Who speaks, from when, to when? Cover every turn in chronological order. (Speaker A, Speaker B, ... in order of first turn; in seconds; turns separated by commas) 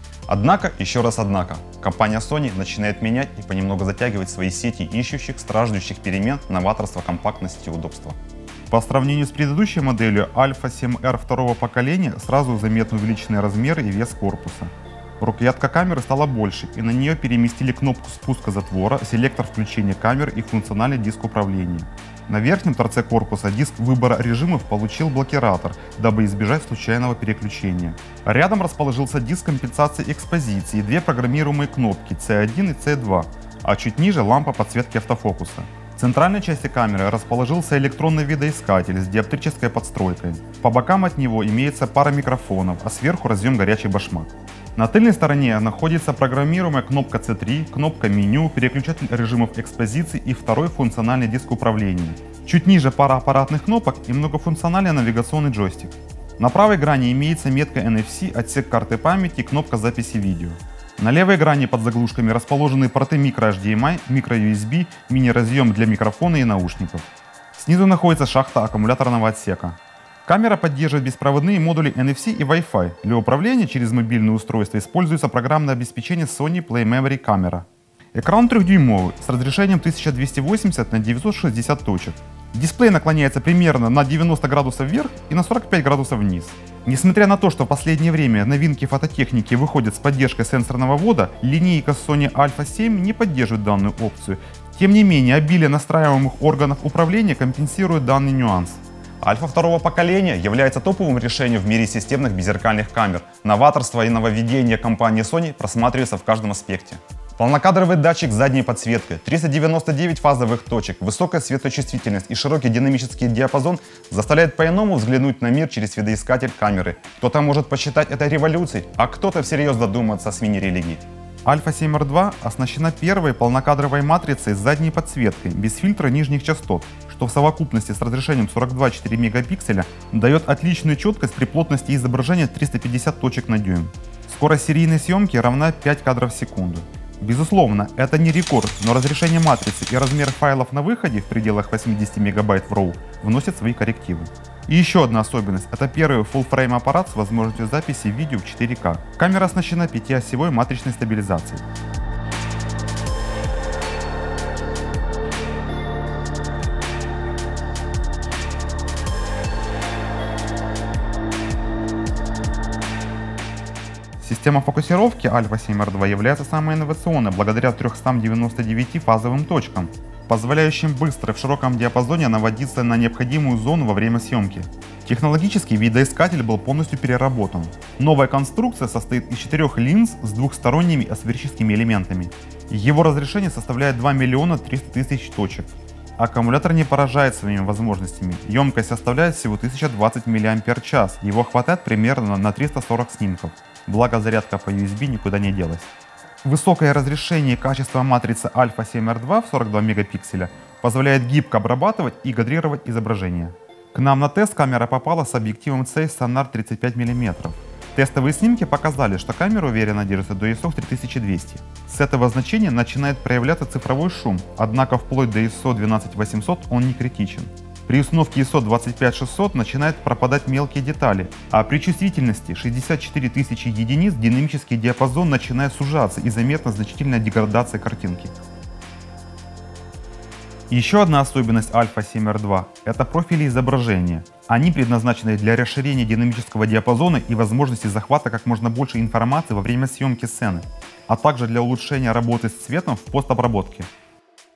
Speaker A: 0.3-8.2, Speaker A: 8.7-151.6, Speaker A: 164.2-195.9, Speaker A: 196.4-228.3, Speaker A: 230.7-243.9